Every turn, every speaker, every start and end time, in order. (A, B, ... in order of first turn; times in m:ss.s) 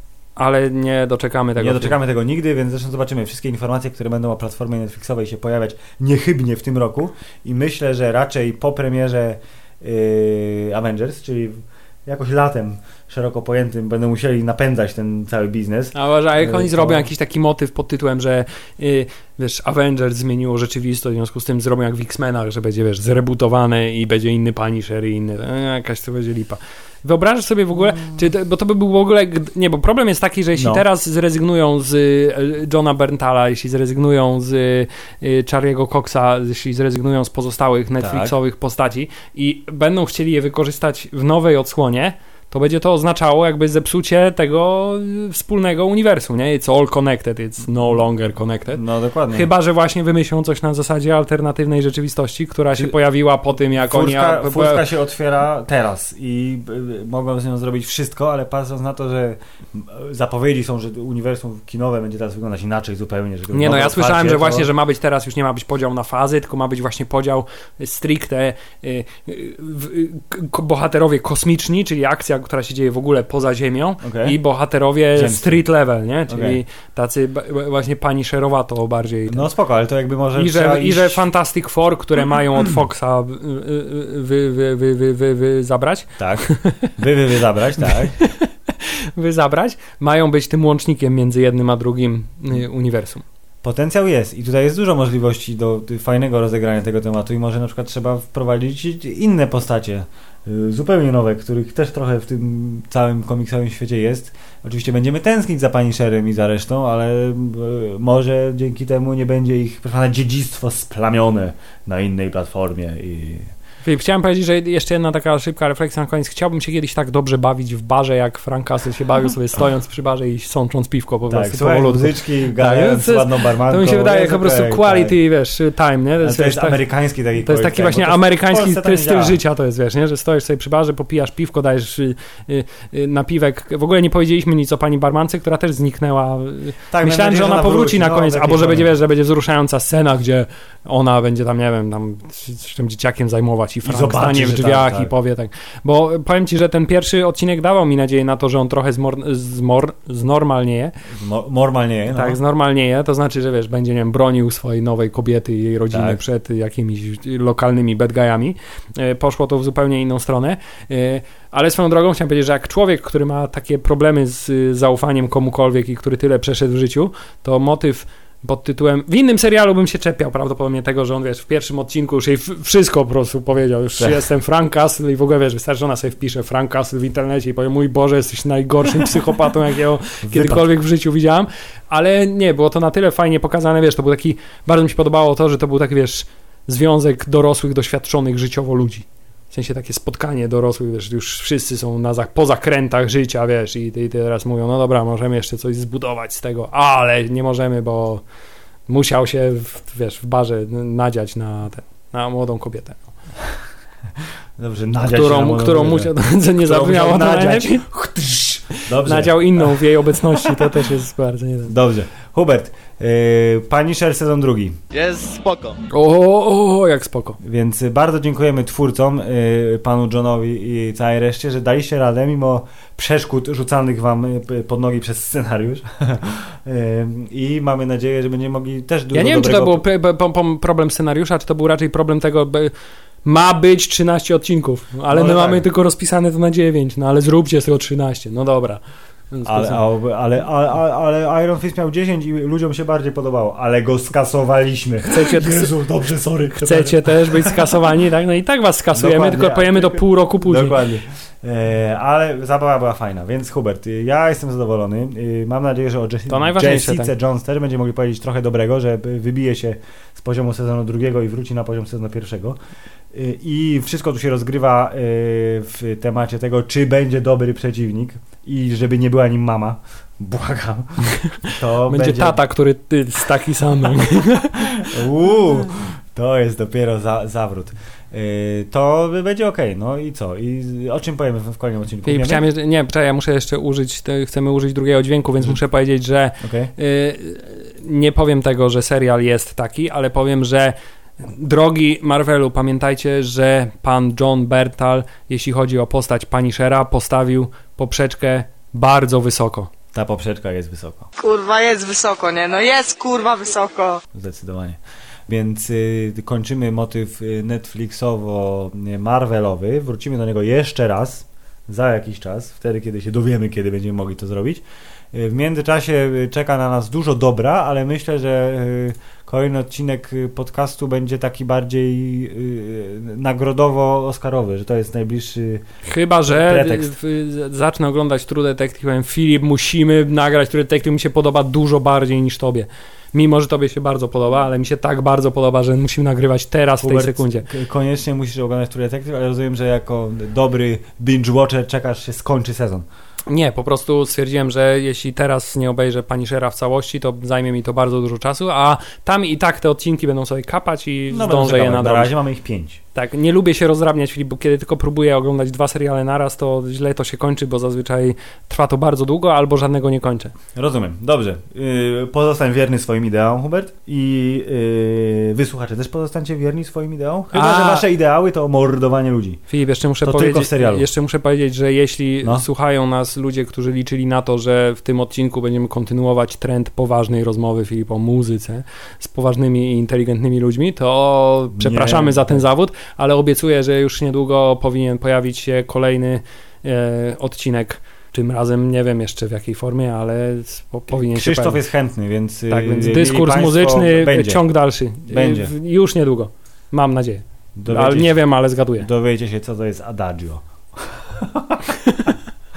0:00.4-0:02.0 A
0:01.6-0:17.1 B
0:15.9-0:54.8 A
0:30.6-0:30.8 B
0:38.0-0:38.3 B
0:48.7-0:49.5 B
0:53.8-1:04.7 B
1:03.5-1:19.5 A
1:14.0-1:14.4 B
1:15.1-1:15.6 B
1:16.3-1:16.6 B
1:19.3-1:21.2 B
1:20.3-1:26.9 A
1:26.2-1:28.2 B
1:27.9-1:33.2 A
1:33.6-1:53.5 B
1:53.8-2:06.8 A
2:01.3-2:05.2 B
2:06.2-2:09.4 B
2:07.4-2:30.9 A
2:16.9-2:18.9 B
2:23.8-2:25.1 B
2:31.1-2:32.4 B
2:32.1-3:18.2 A
2:35.9-2:36.2 B
3:00.2-3:00.7 B
3:18.9-3:23.0 A
3:24.6-3:30.9 B
3:25.0-3:27.8 A
3:29.0-3:31.8 A
3:31.7-3:34.8 B
3:34.9-3:35.8 C
3:35.9-3:37.4 A
3:37.4-3:49.8 B
3:49.1-3:52.7 A
3:53.2-3:59.8 A
3:55.1-3:55.6 B
3:59.4-4:07.7 B
4:05.1-4:05.7 A
4:06.5-4:10.8 A
4:08.9-4:22.6 B
4:16.3-4:17.1 A
4:23.1-4:32.4 B
4:31.3-4:34.8 A
4:34.6-4:42.4 B
4:42.0-4:59.7 A
4:46.4-4:46.7 B
4:59.9-5:01.1 B
5:01.2-5:04.0 C
5:04.1-5:25.6 B
5:25.8-5:37.5 A
5:26.2-5:26.9 B
5:36.8-5:42.9 B
5:43.3-5:52.1 A
5:51.1-5:52.8 B
5:52.9-6:00.3 A
6:00.5-6:09.4 B
6:07.3-6:07.8 A
6:09.5-6:31.6 A
6:10.0-6:10.9 B
6:21.6-6:22.4 B
6:30.9-6:34.4 B
6:32.5-6:38.9 A
6:35.0-6:35.5 B
6:37.6-6:38.2 B
6:38.8-6:42.1 B